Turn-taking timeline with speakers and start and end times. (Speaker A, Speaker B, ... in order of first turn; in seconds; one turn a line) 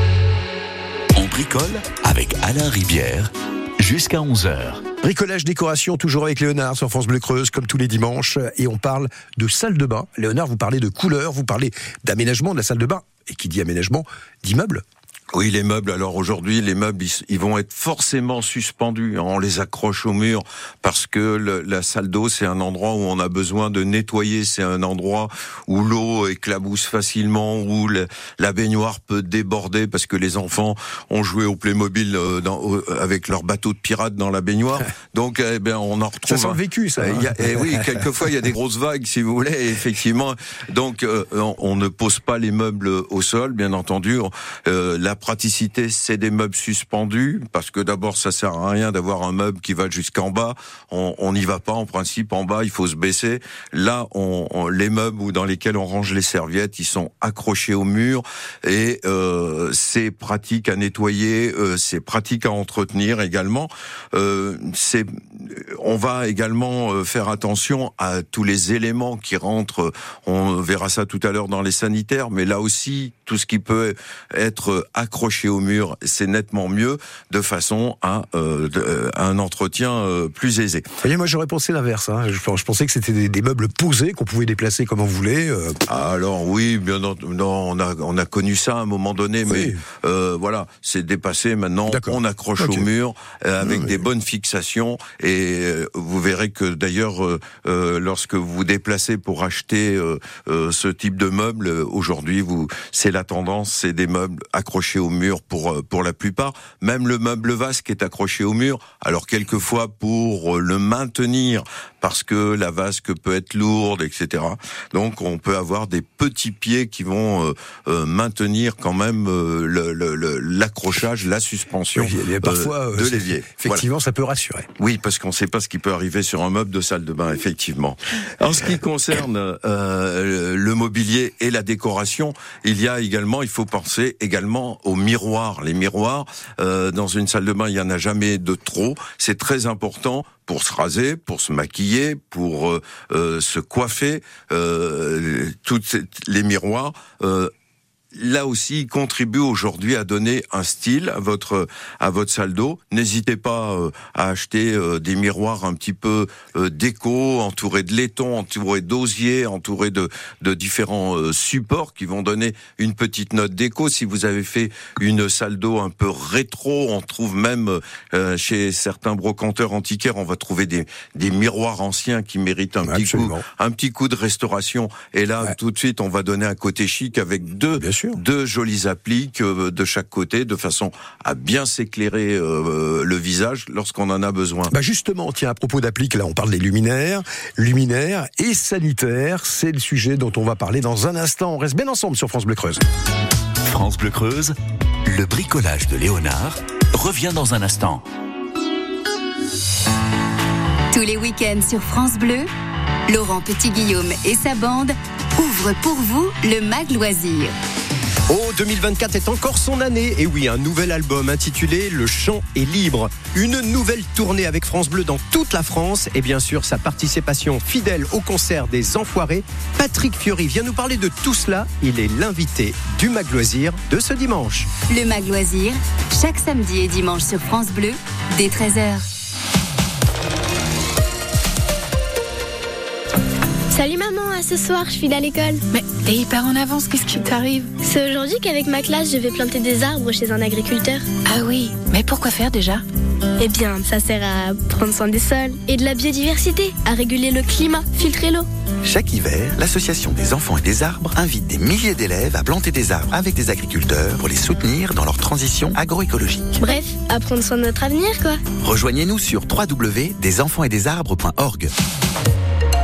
Speaker A: 1.1-4.8
Speaker B: 5.0-14.8
Speaker C: 15.3-80.9
Speaker B: 36.3-37.9
Speaker B: 81.0-85.8
Speaker C: 85.9-123.9
Speaker B: 89.5-89.8
Speaker B: 91.9-92.9
Speaker B: 93.6-94.0
Speaker B: 121.9-124.7
Speaker C: 124.8-147.5
Speaker C: 148.1-184.7
Speaker B: 172.8-173.4
Speaker B: 177.8-178.2
Speaker B: 184.7-192.8
Speaker A: 193.6-198.0
Speaker D: 200.9-202.5
Speaker D: 203.1-207.5
Speaker E: 208.3-224.7
Speaker D: 224.9-229.0
Speaker F: 233.7-235.6
Speaker G: 235.7-237.8
Speaker F: 237.8-241.0
Speaker G: 241.2-242.8
Speaker F: 243.4-248.5
Speaker H: 248.8-256.5
Speaker F: 256.6-258.4
Speaker H: 258.6-261.7